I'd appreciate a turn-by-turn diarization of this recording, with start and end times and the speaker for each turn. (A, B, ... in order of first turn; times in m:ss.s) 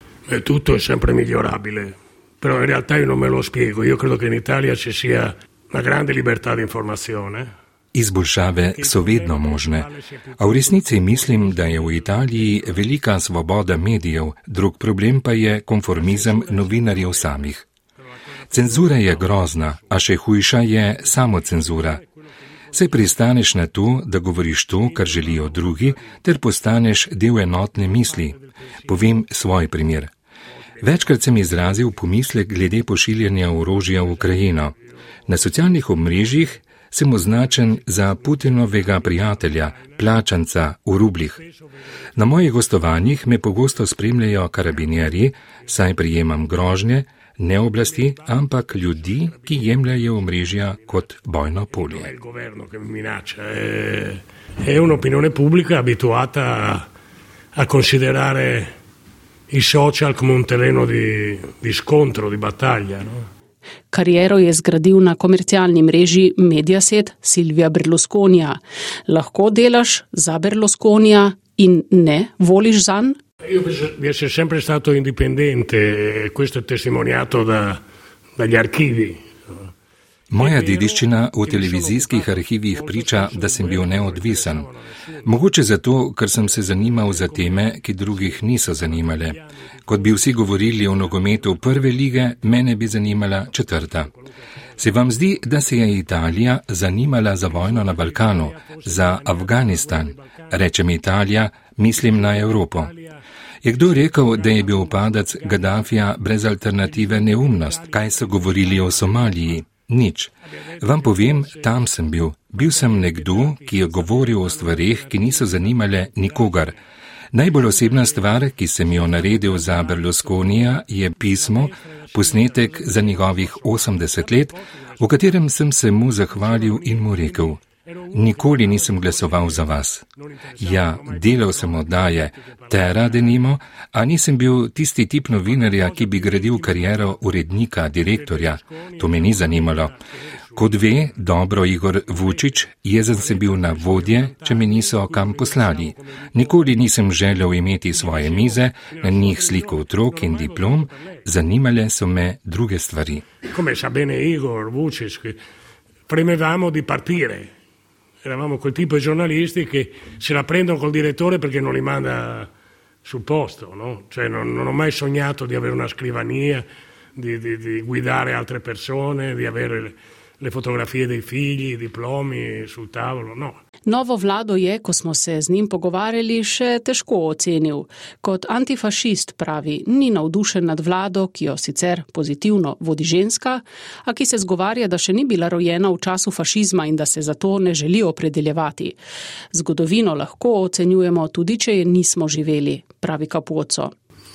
0:00.3-0:07.5 A
0:07.9-0:17.7 B
0:08.7-0:12.8 A
0:16.0-0:17.4 A
0:18.4-0:19.8 A
0:18.5-0:22.0 B
0:21.1-0:22.1 A
0:22.7-0:30.1 B
0:22.8-0:23.1 A
0:24.9-0:26.1 A
0:28.0-0:28.4 A
0:30.8-0:34.8 B
0:34.2-0:34.6 A
0:35.3-0:41.4 B
0:37.4-0:40.1 A
0:42.2-0:52.1 B
0:47.8-0:50.6 A
0:51.8-0:56.9 A
0:57.6-0:58.7 A
0:59.5-1:03.3 A
1:03.9-1:13.2 C
1:13.5-1:17.8 A
1:18.4-1:19.6 A
1:20.3-1:24.7 B
1:20.4-1:25.3 A
1:25.2-1:34.1 B
1:26.7-1:31.9 A
1:34.8-1:42.9 B
1:37.5-1:40.6 A
1:42.0-1:43.2 A
1:43.6-1:56.8 B
1:43.9-1:46.1 A
1:46.8-1:49.6 A
1:50.6-1:51.9 A
1:52.6-1:56.8 A
1:57.3-2:10.0 B
1:57.6-2:05.4 A
2:06.3-2:09.7 A
2:10.3-2:13.4 A
2:10.6-2:20.0 B
2:15.5-2:17.2 A
2:18.1-2:20.0 A
2:20.5-2:21.0 A
2:20.6-2:33.3 B
2:23.1-2:26.8 A
2:27.9-2:31.2 A
2:33.5-2:35.4 A
2:36.1-2:37.5 A
2:38.2-2:42.5 A
2:43.0-2:53.6 A
2:53.9-3:09.0 C
3:09.5-3:13.9 C